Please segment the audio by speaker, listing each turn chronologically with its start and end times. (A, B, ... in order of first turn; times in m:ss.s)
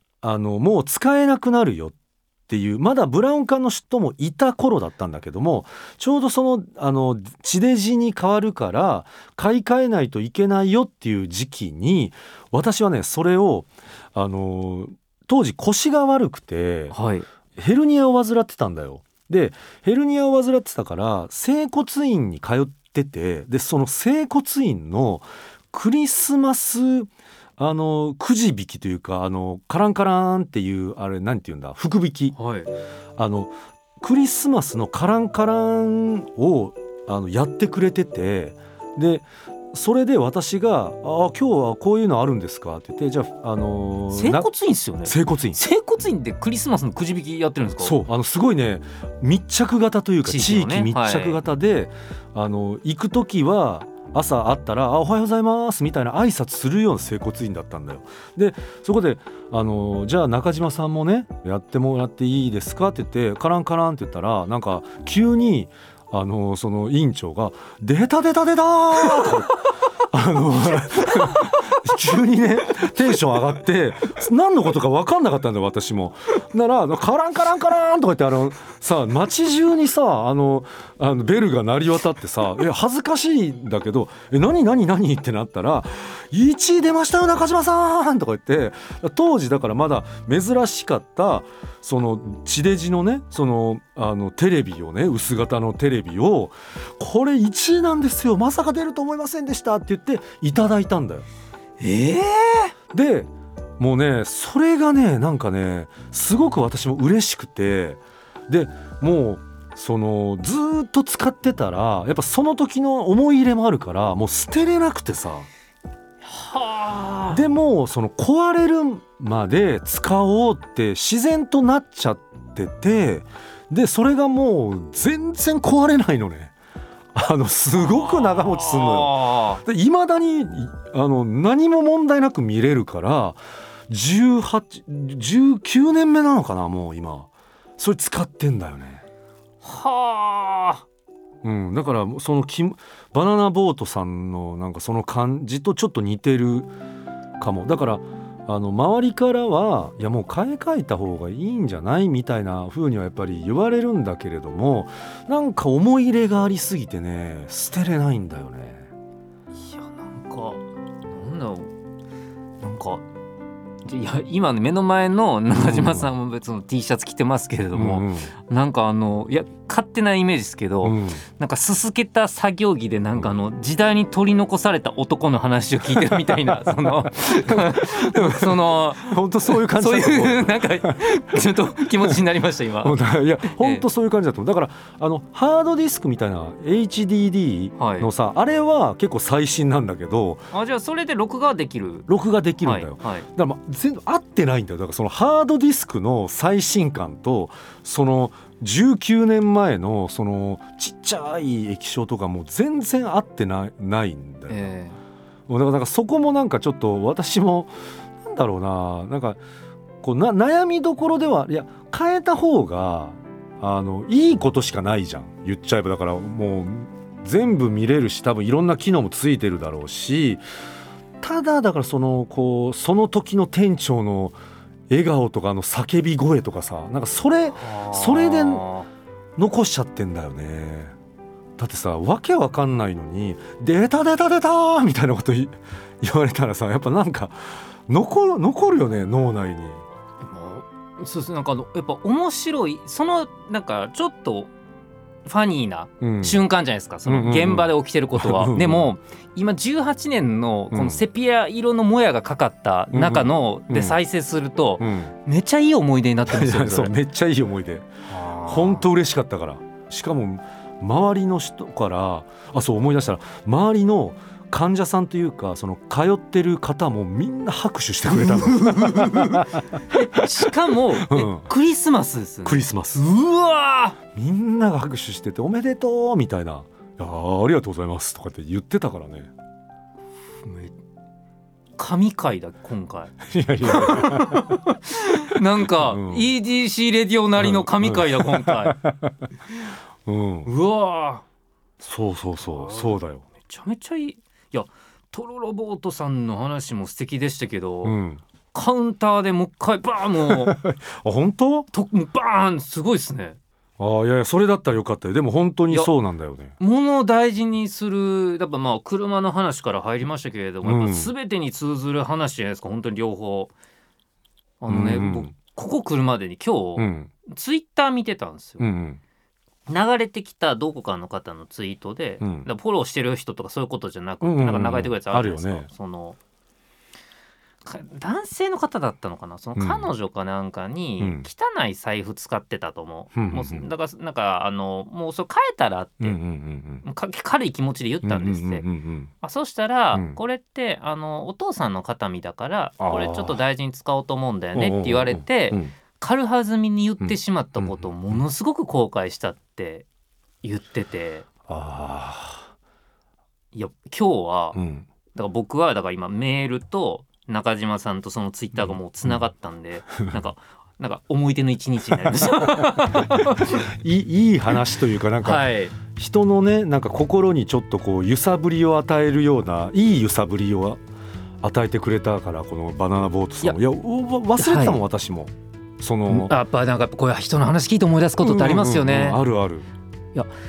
0:00.2-0:01.9 A
0:02.5-0:16.9 A
0:16.9-0:17.2 B
0:17.6-0:32.3 A
0:32.3-0:32.7 B
0:33.2-0:44.5 A
0:44.1-0:48.0 B
0:45.0-0:45.6 A
0:47.8-1:09.5 A
0:50.2-0:51.4 B
1:10.1-1:41.2 A
1:11.1-1:11.7 B
1:41.8-1:42.7 B
1:42.9-1:55.5 A
1:56.2-1:57.4 B
1:57.3-2:06.5 A
2:07.1-2:19.0 A
2:07.8-2:09.6 B
2:19.6-2:20.8 B
2:21.4-2:26.7 A
2:27.4-2:38.9 A
2:39.6-2:41.7 B
2:42.6-2:43.0 B
2:43.8-3:03.0 B
2:45.5-2:46.1 A
2:47.7-2:48.3 A
2:50.8-2:51.2 A
2:56.0-3:01.0 A
3:02.8-3:10.5 A
3:03.5-3:03.8 B
3:07.8-3:08.1 B
3:10.5-3:12.1 B
3:12.1-3:24.7 A
3:12.6-3:13.3 B
3:24.5-3:25.0 B
3:25.5-3:29.4 A
3:30.0-3:40.4 A
3:41.2-3:44.4 A
3:44.9-3:48.6 A
3:47.6-3:48.9 B
3:49.4-3:50.9 A
3:51.6-3:59.8 A
4:00.2-4:04.5 B
4:05.2-4:16.9 B
4:06.0-4:06.4 A
4:07.1-4:08.9 A
4:10.7-4:11.0 A
4:12.9-4:14.0 A
4:14.8-4:15.1 A
4:16.3-4:17.9 A
4:18.1-4:18.8 B
4:18.4-4:31.4 A
4:28.1-4:34.0 B
4:32.4-4:33.0 A
4:34.1-4:39.3 A
4:40.4-4:40.7 B
4:41.8-4:48.8 B
4:43.2-4:44.6 A
4:45.3-4:46.3 A
4:47.4-4:49.3 A
4:50.0-4:50.5 A
4:50.4-4:51.2 B
4:51.8-4:53.2 A
4:52.4-4:58.0 B
4:57.8-4:58.2 A
4:58.5-5:00.6 B
5:00.3-5:01.7 A
5:01.7-5:03.4 B
5:03.8-5:06.5 A
5:06.6-5:13.5 B
5:10.6-5:11.1 A
5:14.6-5:18.7 B
5:14.7-5:15.3 A
5:16.8-5:17.1 A
5:18.6-5:19.0 A
5:19.7-5:26.2 B
5:22.2-5:22.5 A
5:24.2-5:25.7 A
5:27.6-5:36.2 B
5:29.6-5:29.9 A
5:31.0-5:31.2 A
5:33.1-5:33.7 A
5:36.0-5:36.8 A
5:36.8-5:38.6 B
5:38.0-5:39.1 A
5:39.2-5:49.8 B
5:39.9-5:40.2 A
5:42.8-5:43.4 A
5:44.6-5:45.7 A
5:47.0-5:48.2 A
5:50.4-5:51.3 B
5:51.5-5:52.5 A
5:53.5-5:54.6 B
5:54.5-5:54.9 A
5:55.1-6:03.7 B
5:58.6-5:59.2 A
6:02.1-6:10.8 A
6:05.2-6:05.7 B
6:11.4-6:16.3 A
6:14.4-6:14.8 B
6:16.1-6:19.2 B
6:18.2-6:19.7 A